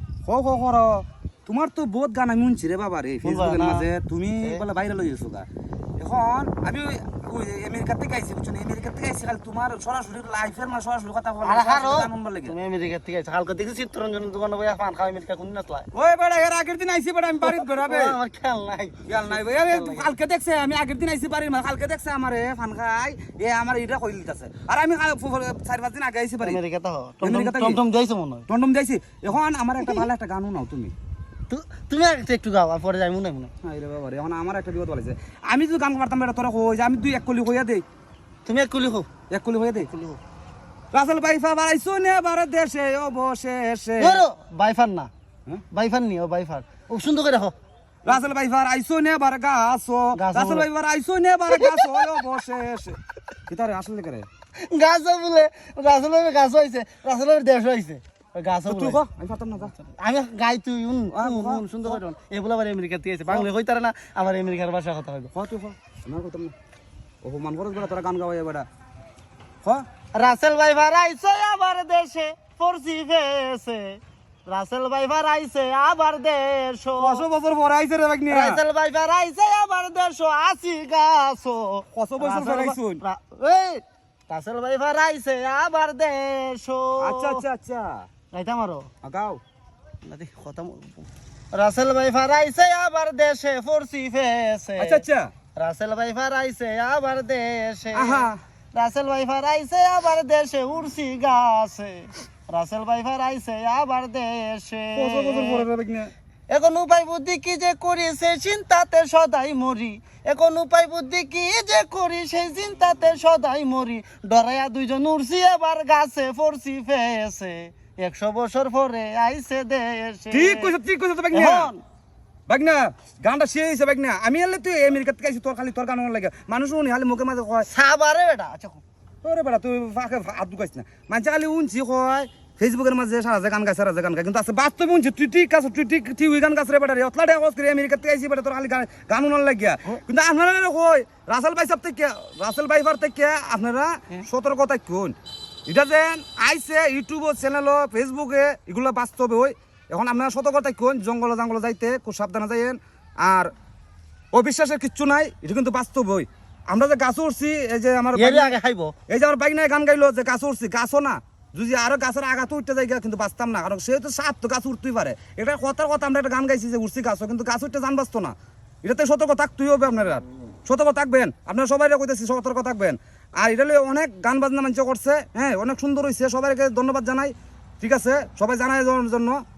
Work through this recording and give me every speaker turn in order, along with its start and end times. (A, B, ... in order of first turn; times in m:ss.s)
0:00.2-0:05.5 A
0:03.2-0:03.9 B
0:06.0-0:12.5 A
0:11.4-0:15.9 B
0:15.9-0:18.2 A
0:17.4-0:20.1 B
0:19.1-0:26.6 A
0:26.4-0:28.5 B
0:27.2-0:27.8 A
0:28.5-0:30.9 A
0:31.5-0:33.5 B
0:33.6-0:37.8 A
0:38.4-0:39.1 B
0:39.3-0:39.9 A
0:39.9-0:40.2 B
0:40.9-0:44.2 A
0:44.0-0:45.1 B
0:45.7-0:47.5 B
0:48.0-0:54.3 A
0:50.1-0:50.7 B
0:51.5-0:52.0 B
0:54.6-0:59.0 B
0:58.7-0:59.7 A
0:59.6-1:05.3 B
1:01.1-1:02.0 A
1:05.3-1:06.6 A
1:07.2-1:08.7 A
1:10.2-1:17.2 B
1:17.0-1:18.6 A
1:18.3-1:27.4 B
1:21.9-1:23.0 A
1:27.0-1:28.1 A
1:28.3-1:28.9 B
1:29.0-1:29.4 A
1:30.0-1:35.0 B
1:34.8-1:35.3 A
1:35.6-1:45.7 B
1:37.9-1:38.4 A
1:45.0-1:46.1 A
1:46.5-2:00.8 B
2:00.3-2:01.7 A
2:01.3-2:01.8 B
2:02.5-2:07.7 A
2:07.7-2:08.8 B
2:09.2-2:25.2 A
2:25.7-2:33.5 A
2:34.3-2:38.6 A
2:38.2-2:38.9 B
2:39.1-2:59.4 A